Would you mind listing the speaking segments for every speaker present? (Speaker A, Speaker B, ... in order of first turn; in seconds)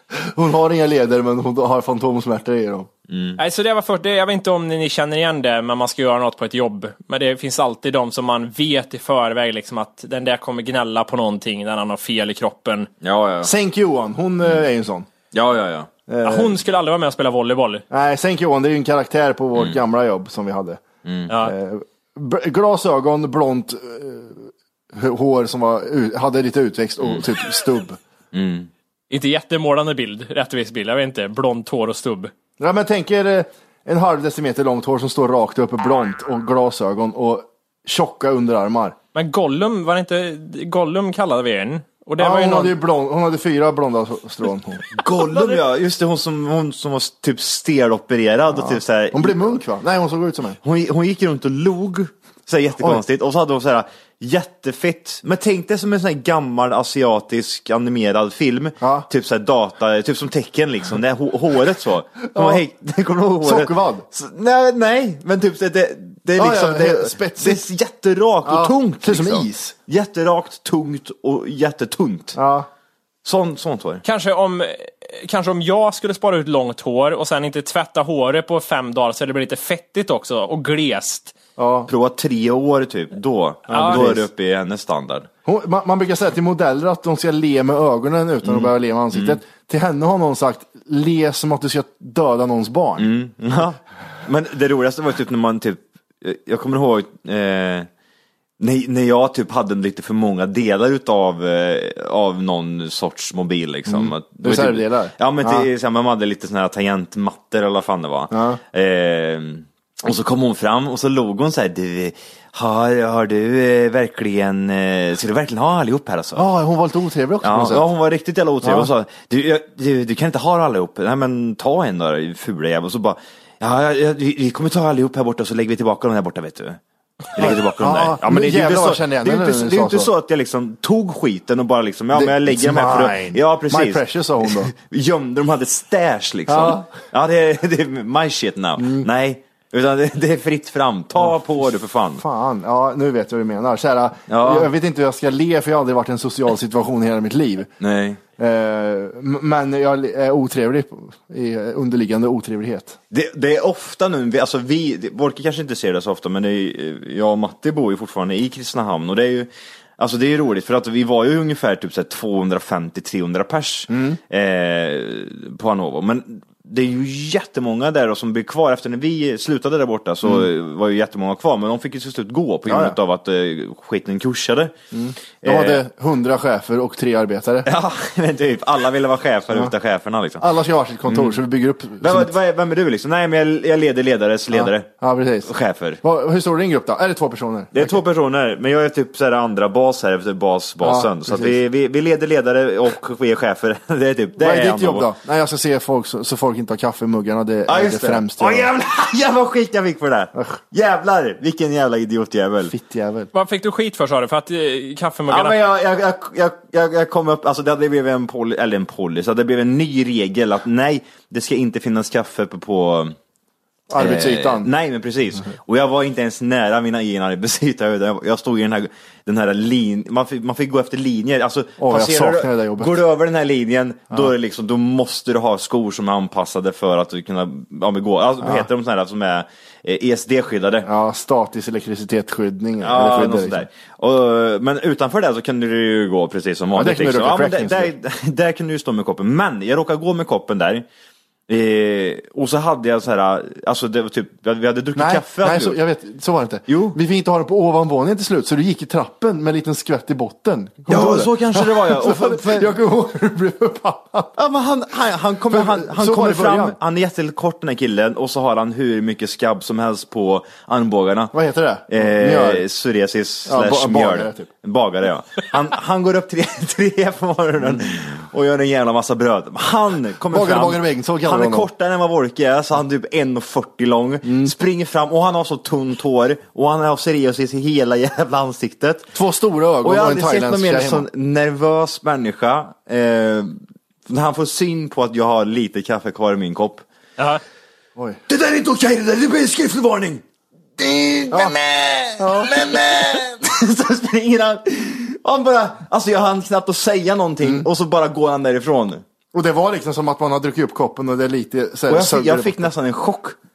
Speaker A: 0.2-2.9, 13.4-15.1, 16.1-16.6, 17.9-28.0, 32.6-39.0, 42.2-44.9, 48.6-50.6, 58.8-59.1, 62.2-62.6, 63.4-64.0, 66.3-67.6, 68.4-69.7, 72.3-72.7, 81.6-81.9, 83.7-84.3, 85.4-93.1, 103.9-105.7, 108.3-108.6, 116.3-117.9, 118.6-118.9, 127.4-130.1, 132.1-134.7, 136.5-136.9, 138.8-139.1, 142.2-147.7, 148.4-153.0, 163.9-164.2, 172.7-172.9, 174.9-177.7, 180.4-182.3, 184.5-188.0, 190.8-191.6, 194.4-198.7, 200.3-200.6, 202.7-203.3, 213.9-214.7, 221.8-223.0, 228.4-228.7, 230.8-233.7, 236.7-237.9, 244.9-254.3, 255.5-256.8, 261.3-262.6, 263.5-264.5, 270.3-271.7, 274.2-274.5, 279.1-281.1, 287.9-288.2, 291.3-291.6, 292.2-292.7, 297.4-297.7, 299.3-302.7
Speaker B: 3.1-3.4, 13.0-13.5, 15.3-15.9, 21.0-21.3, 28.3-28.7, 44.9-49.6, 50.6-72.4, 73.2-74.0, 81.9-85.3, 88.4-89.4, 93.0-97.9, 98.6-116.5, 117.4-126.8, 127.3-142.2, 144.3-144.7, 147.8-148.2, 153.1-174.7, 175.4-175.8, 177.6-180.4, 181.1-181.3, 182.0-184.9, 185.4-186.0, 187.7-195.1, 197.7-202.7, 205.3-213.2, 213.9-230.9, 232.8-240.8, 241.5-245.8, 246.7-247.0, 250.9-252.7, 254.3-261.3, 261.9-279.1, 279.8-286.8, 288.3-290.2, 290.8-299.0, 301.9-303.4
Speaker C: 3.4-12.9, 16.2-17.8, 29.1-32.3, 39.1-42.8, 45.3-45.6, 74.0-81.3, 83.7-84.0, 203.3-205.6